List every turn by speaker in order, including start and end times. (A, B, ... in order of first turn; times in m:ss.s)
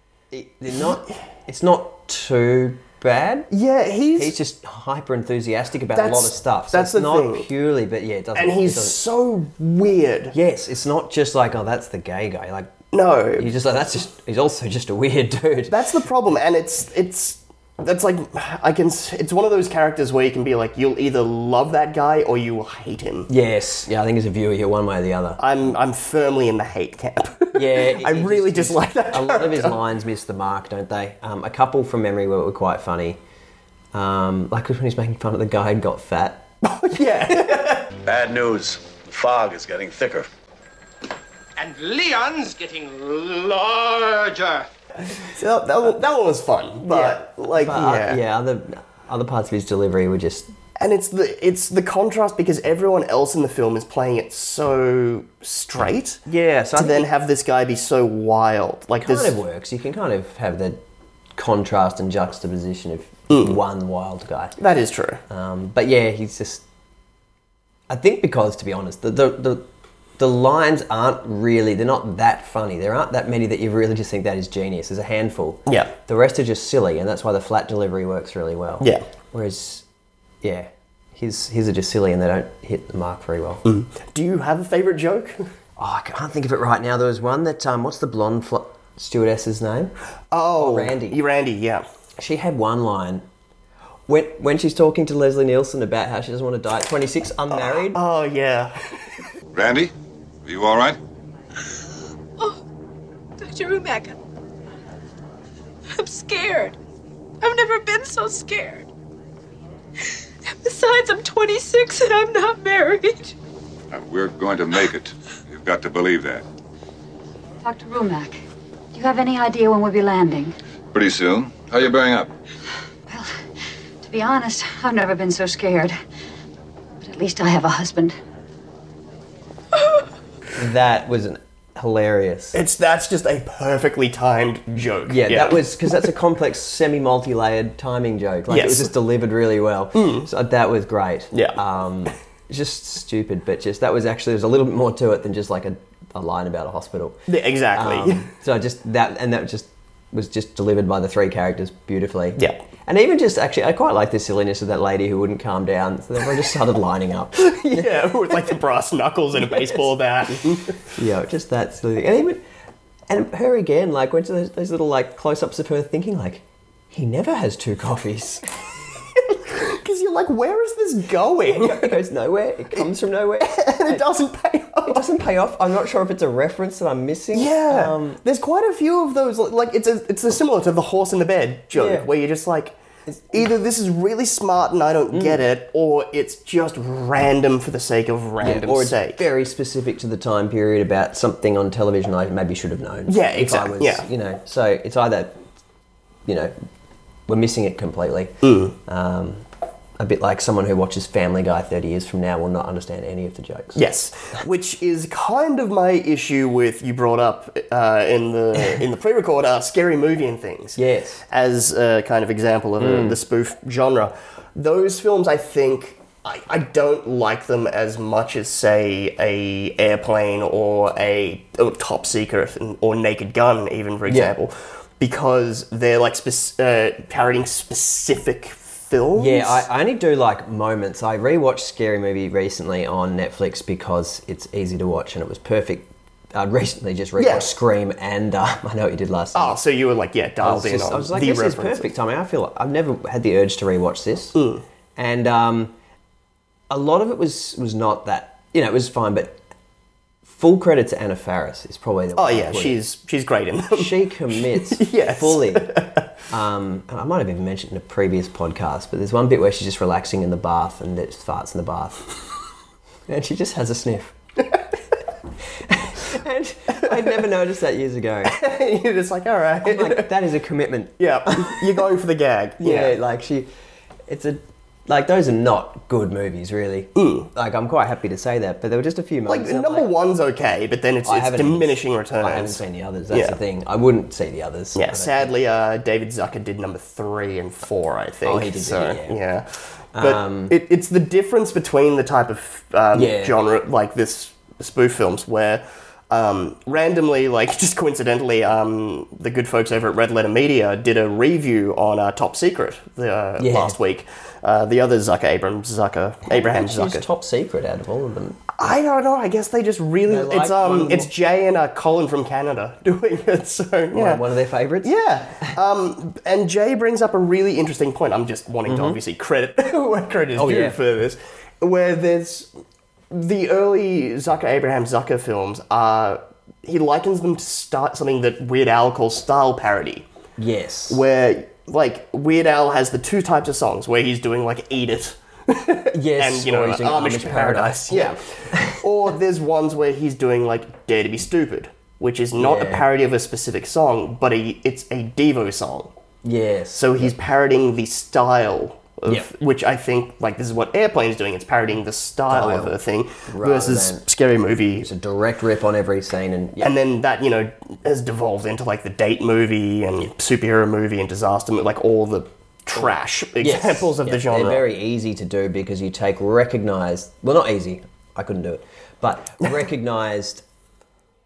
0:00.3-0:03.5 A
0:03.5-0:04.3 B
0:04.1-0:09.0 A
0:05.9-0:07.5 B
0:08.3-0:10.3 B
0:10.3-0:12.7 A
0:12.9-0:13.5 B
0:13.4-0:15.8 A
0:15.7-0:23.3 B
0:23.3-0:25.4 A
0:25.4-0:29.8 B
0:27.5-0:33.2 A
0:33.9-0:36.4 A
0:36.6-0:37.8 B
0:38.0-0:40.3 C
0:41.6-0:44.7 D
0:45.1-0:48.2 B
0:46.8-0:50.5 A
0:50.8-0:56.2 B
0:56.3-0:57.0 A
0:56.8-0:59.4 B
0:59.0-1:00.8 A
1:01.4-1:04.6 A
1:03.3-1:03.6 B
1:04.6-1:05.2 B
1:05.3-1:06.6 A
1:07.9-1:09.6 A
1:10.2-1:19.8 A
1:15.7-1:15.9 B
1:20.4-1:23.6 A
1:23.6-1:25.5 B
1:25.8-1:29.9 A
1:30.3-1:31.8 B
1:30.6-1:31.2 A
1:32.2-1:33.2 A
1:34.1-1:38.0 A
1:37.5-1:39.0 B
1:39.5-1:39.9 E
1:40.4-1:41.0 E
1:43.4-1:44.2 F
1:45.9-1:46.8 F
1:47.4-1:48.9 F
1:50.4-1:53.3 F
1:53.9-1:56.4 E
1:57.6-1:58.4 G
1:58.9-2:00.6 G
2:00.9-2:02.3 E
2:03.1-2:03.3 G
2:04.0-2:06.0 G
2:07.0-2:08.2 G
2:09.8-2:10.0 F
2:10.6-2:12.6 A
2:12.5-2:16.1 B
2:15.1-2:27.2 A
2:18.5-2:18.9 B
2:19.9-2:20.3 B
2:21.3-2:21.6 B
2:27.3-2:28.3 B
2:27.7-2:38.4 A
2:37.4-2:40.8 B
2:40.9-2:42.4 A
2:43.1-2:48.4 A
2:49.3-2:52.0 B
2:51.5-2:54.0 A
2:53.4-2:55.0 B
2:54.8-2:58.2 A
2:57.3-3:02.8 B
3:01.7-3:02.1 A
3:03.1-3:03.4 A
3:03.3-3:09.2 B
3:05.1-3:05.4 A
3:08.4-3:15.4 A
3:13.1-3:14.0 B
3:16.2-3:16.5 A
3:17.3-3:19.4 A
3:18.4-3:18.8 B
3:20.0-3:23.8 A
3:23.7-3:30.8 B
3:30.8-3:31.2 A
3:31.3-3:49.6 B
3:32.8-3:33.2 A
3:44.1-3:44.3 A
3:49.2-3:59.6 A
3:57.2-3:57.5 B
3:59.3-4:01.9 B
4:00.4-4:04.4 A
4:04.3-4:04.6 B
4:05.0-4:05.7 A
4:06.7-4:09.4 A
4:10.3-4:12.8 A
4:12.1-4:16.1 B
4:13.7-4:15.8 A
4:16.3-4:22.0 A
4:23.1-4:24.1 A
4:25.7-4:28.4 A
4:26.8-4:27.1 B
4:28.2-4:30.1 B
4:29.6-4:31.7 A
4:31.0-4:33.0 B
4:32.6-4:33.5 A
4:34.1-4:39.9 A
4:37.0-4:37.3 B
4:39.3-4:43.4 B
4:41.0-4:45.3 A
4:44.7-5:07.0 B
4:48.2-4:49.2 A
4:49.9-4:50.6 A
4:52.9-4:53.4 A
5:03.4-5:03.8 A
5:06.3-5:08.5 A
5:08.5-5:14.2 B
5:10.1-5:11.1 A
5:13.9-5:15.6 A
5:14.8-5:22.5 B
5:18.6-5:19.0 A
5:20.4-5:20.8 A
5:23.1-5:30.0 B
5:30.4-5:31.0 A
5:30.9-5:45.9 B
5:35.9-5:38.8 A
5:42.4-5:42.8 A
5:46.2-5:47.1 A
5:46.7-5:54.9 B
5:52.3-5:54.0 A
5:54.8-5:56.7 A
5:56.6-6:04.6 B
6:02.7-6:10.4 A